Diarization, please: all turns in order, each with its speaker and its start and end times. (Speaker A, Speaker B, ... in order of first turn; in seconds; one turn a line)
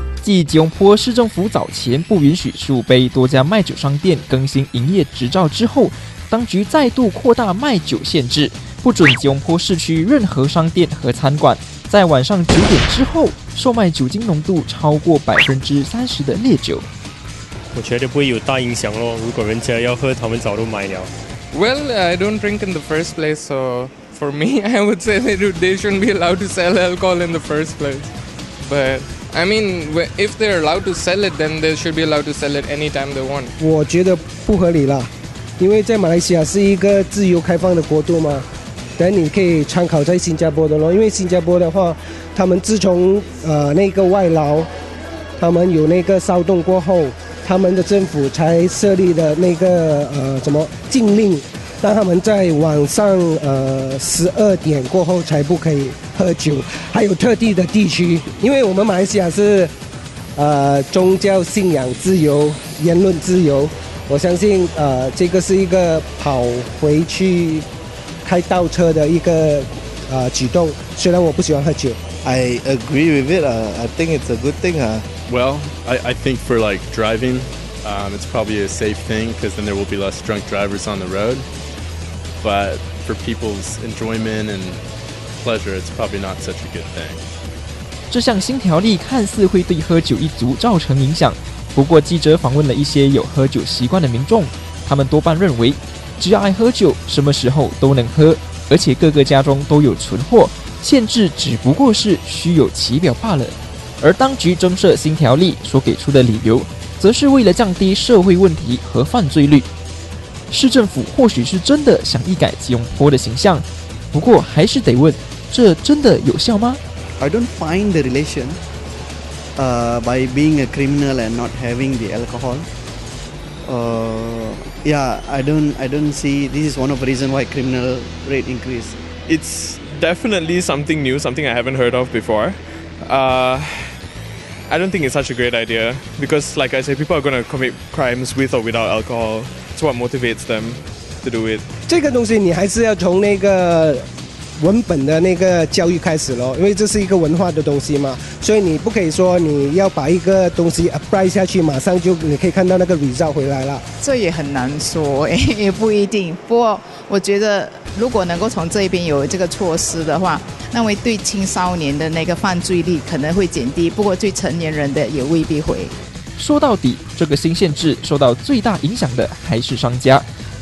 Speaker A: 0.2-16.9
Speaker B: 17.7-21.1
Speaker C: 21.5-33.5
Speaker D: 33.6-38.5
Speaker D: 39.0-44.7
Speaker D: 45.4-59.7
Speaker D: 60.4-67.7
Speaker D: 68.2-72.0
Speaker E: 72.2-74.6
Speaker F: 75.3-81.5
Speaker F: 82.4-84.8
Speaker F: 85.4-87.2
Speaker A: 88.1-109.7
Speaker A: 110.5-116.8
Speaker E: 117.2-118.6
Speaker E: 119.5-122.7
Speaker E: 123.6-129.0
Speaker G: 129.3-134.0
Speaker G: 134.7-141.6
Speaker D: 141.9-144.1
Speaker D: 144.6-153.8
Speaker H: 154.0-165.9
Speaker A: 166.4-170.3